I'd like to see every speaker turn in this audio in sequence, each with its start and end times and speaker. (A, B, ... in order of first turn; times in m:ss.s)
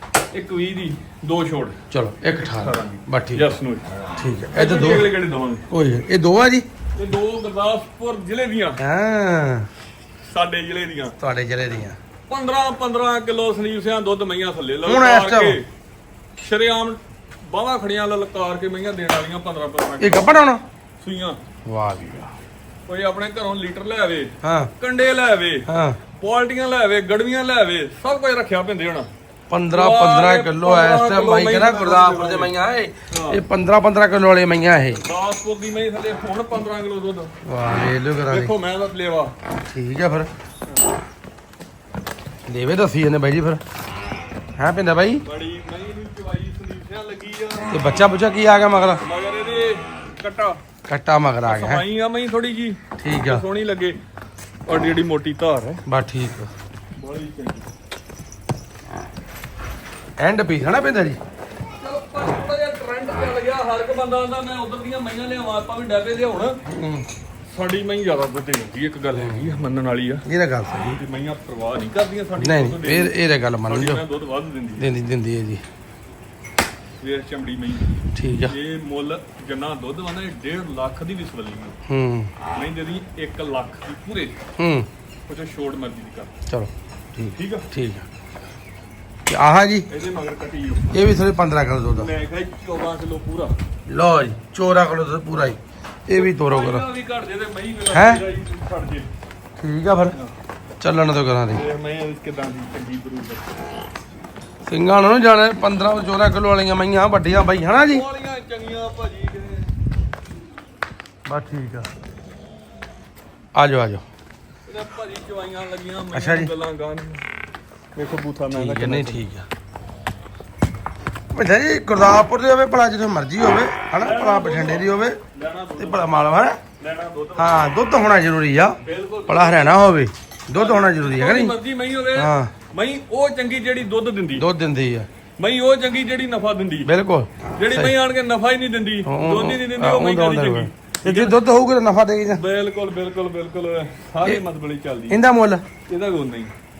0:00.3-0:01.8 A
0:01.9-0:03.4 B
0:02.4-0:03.8 A
0:04.2-0:05.1 B
0:04.5-0:05.6 A
0:05.7-0:06.6 B
0:07.0-0:08.8 A
0:08.8-0:09.7 B
0:10.3-0:11.1 A
0:11.2-0:12.0 B
0:12.3-0:15.6 A
0:14.8-0:15.6 B
0:16.4-0:20.3 A
0:20.0-0:20.6 B
0:21.0-0:21.4 A
0:21.6-0:22.3 B
0:22.9-0:29.1 A
0:24.4-0:24.7 B
0:25.7-0:26.0 B
0:29.5-0:35.0 B
0:29.7-0:32.5 A
0:33.1-0:33.4 A
0:35.0-0:37.3 A
0:37.4-0:38.5 B
0:38.3-0:39.3 A
0:39.7-0:40.3 B
0:42.5-0:43.6 B
0:44.6-0:45.2 B
0:45.2-0:47.7 A
0:47.7-0:49.0 B
0:49.0-0:50.6 A
0:50.9-0:51.8 B
0:51.4-0:54.0 A
0:53.0-0:53.4 B
0:54.7-0:55.8 A
0:55.8-0:56.5 B
0:57.0-0:57.7 A
1:00.2-1:01.2 B
1:01.8-1:06.6 A
1:06.7-1:07.1 B
1:07.5-1:10.2 A
1:09.1-1:09.6 B
1:10.3-1:11.0 B
1:11.0-1:13.1 A
1:12.4-1:14.0 B
1:13.7-1:14.9 A
1:14.8-1:15.6 B
1:17.0-1:17.9 A
1:18.1-1:18.5 B
1:18.5-1:21.8 A
1:21.9-1:22.3 B
1:22.5-1:24.4 A
1:24.6-1:24.9 B
1:25.3-1:26.3 A
1:26.5-1:28.1 B
1:27.4-1:27.7 A
1:29.3-1:29.9 B
1:29.9-1:30.9 A
1:30.9-1:32.1 B
1:31.9-1:33.5 A
1:33.9-1:36.8 B
1:36.1-1:39.1 A
1:37.9-1:38.2 B
1:39.6-1:40.2 B
1:40.8-1:41.6 B
1:41.5-1:43.4 A
1:44.7-1:48.0 B
1:47.9-1:49.7 A
1:51.2-1:51.9 B
1:53.5-1:54.0 B
1:54.6-1:57.2 A
1:56.1-1:56.5 B
1:58.0-1:59.2 A
1:58.5-1:59.4 B
2:01.3-2:05.2 B
2:04.0-2:06.2 A
2:05.8-2:06.6 B
2:06.8-2:07.6 A
2:07.4-2:11.6 B
2:08.8-2:09.8 A
2:10.5-2:14.5 A
2:12.1-2:12.5 B
2:14.4-2:15.1 B
2:15.4-2:16.9 A
2:16.8-2:17.9 B
2:17.6-2:21.4 A
2:19.1-2:22.4 B
2:22.3-2:25.2 A
2:25.1-2:25.6 B
2:25.9-2:26.5 A